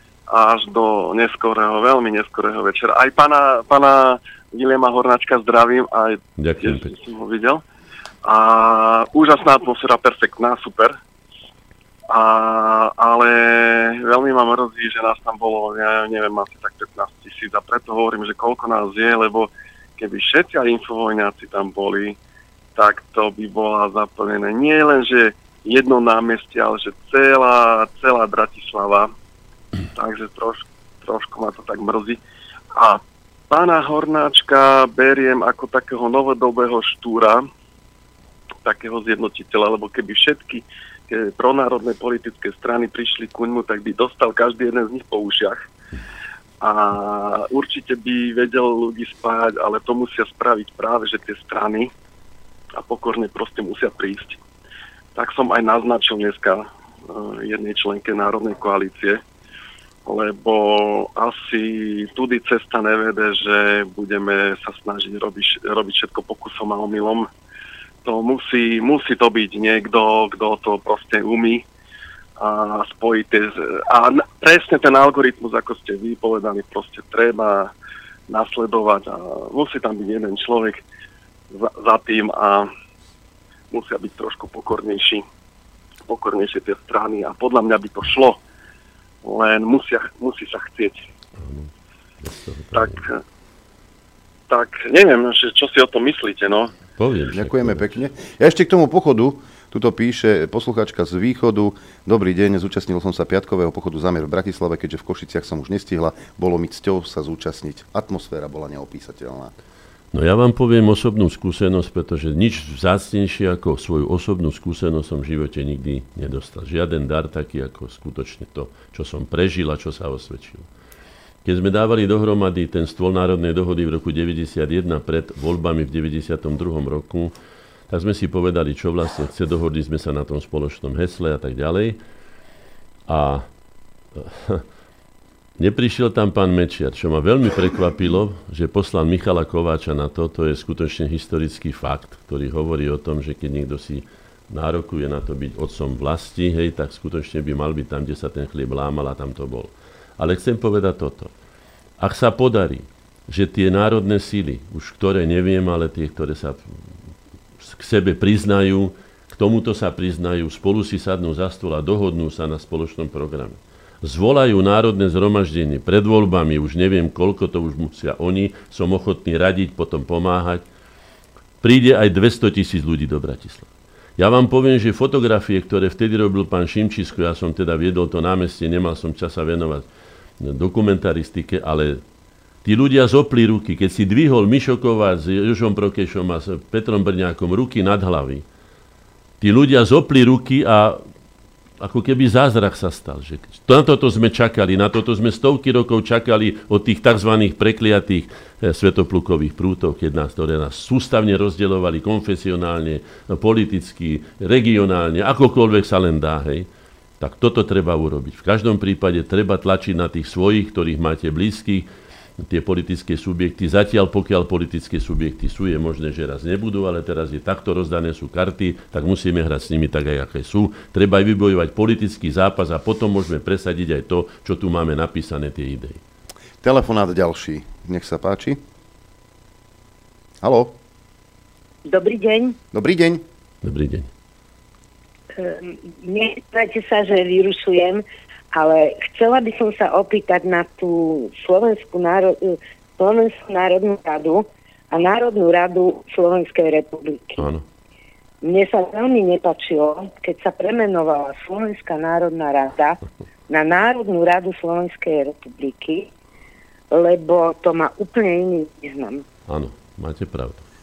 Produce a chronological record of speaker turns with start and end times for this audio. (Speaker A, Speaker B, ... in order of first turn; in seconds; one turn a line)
Speaker A: 0.3-7.6
Speaker B: 6.4-6.9
Speaker A: 8.2-11.0
Speaker A: 12.1-22.2
Speaker A: 22.8-29.1
Speaker A: 29.9-32.2
Speaker A: 32.8-37.4
Speaker A: 38.6-45.6
Speaker A: 46.6-51.9
Speaker A: 52.8-54.4
Speaker A: 55.1-59.2
Speaker A: 60.0-67.3
Speaker A: 68.0-71.6
Speaker A: 72.4-77.7
Speaker A: 78.3-80.8
Speaker A: 81.5-82.7
Speaker A: 83.7-85.2
Speaker A: 86.1-88.4
Speaker A: 89.2-91.1
Speaker B: 91.4-91.7
Speaker B: 92.2-93.0
Speaker A: 92.7-93.2
Speaker A: 94.5-96.7
Speaker B: 97.0-97.9
Speaker C: 97.3-109.5
Speaker B: 110.1-120.7
Speaker B: 121.4-127.3
Speaker B: 127.9-132.0
Speaker B: 133.1-133.4
Speaker B: 134.1-134.6
Speaker B: 135.6-151.3
Speaker B: 152.0-156.7
Speaker B: 157.6-170.6
Speaker B: 171.6-179.8
Speaker B: 180.4-182.0
Speaker B: 182.6-188.4
Speaker B: 189.4-191.0
Speaker B: 191.8-206.7
Speaker B: 207.2-211.9
Speaker B: 212.4-226.0
Speaker C: 226.6-228.6
Speaker C: 230.4-230.7
Speaker D: 231.9-232.6
Speaker C: 232.7-233.2
Speaker B: 233.6-234.1
Speaker D: 235.3-247.4
Speaker B: 247.4-247.6
Speaker D: 248.4-256.1
Speaker D: 256.9-259.2
Speaker B: 259.5-260.6